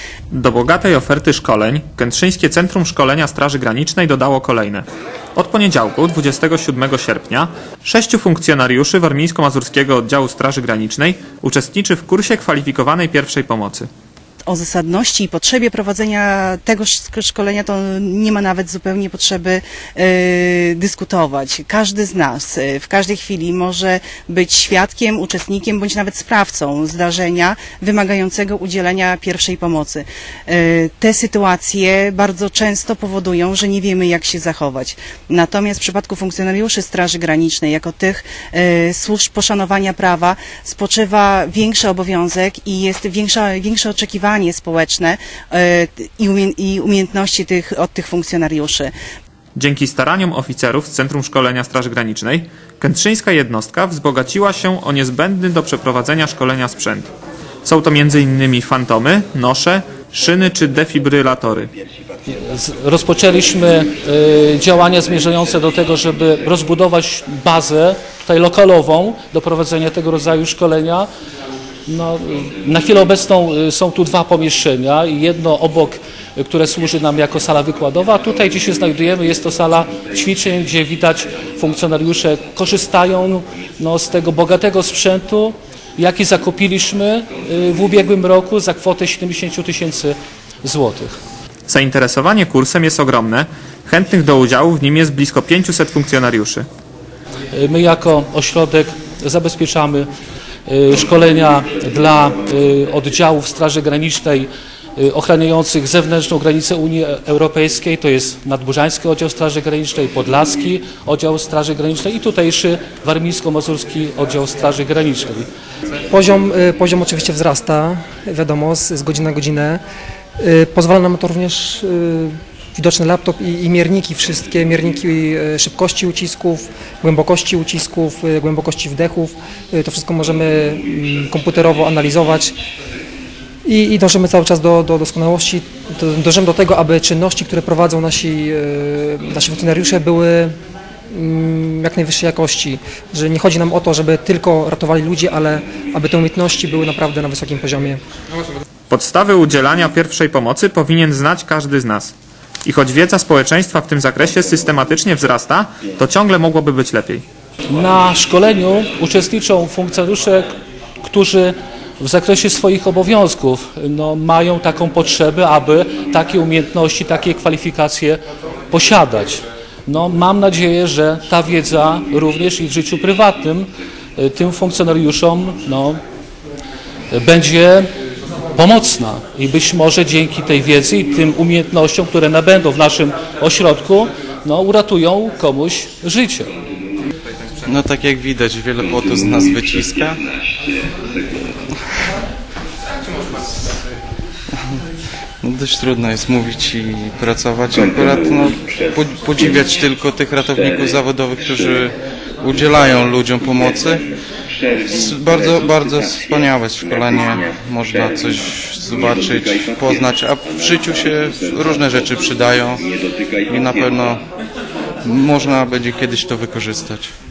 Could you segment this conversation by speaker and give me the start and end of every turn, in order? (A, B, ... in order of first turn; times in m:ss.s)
0:00.3-0:13.9 A
0:14.5-0:48.9 B
0:49.6-0:57.1 A
0:57.6-1:01.7 A
1:02.3-1:11.1 C
1:11.9-1:31.2 C
1:31.7-1:36.7 A
1:37.5-1:40.1 C
1:40.7-1:55.4 C
1:56.1-1:59.8 D
2:00.4-2:12.5 D
2:13.6-2:20.5 D
2:21.1-2:28.0 D
2:28.9-2:32.1 A
2:32.6-2:37.2 A
2:37.7-2:56.0 C
2:57.1-2:57.9 C
2:58.5-3:06.5 C
3:07.6-3:10.2 E
3:14.5-3:14.8 E
3:15.4-3:24.1 E
3:24.7-3:34.2 E
3:35.0-3:37.1 E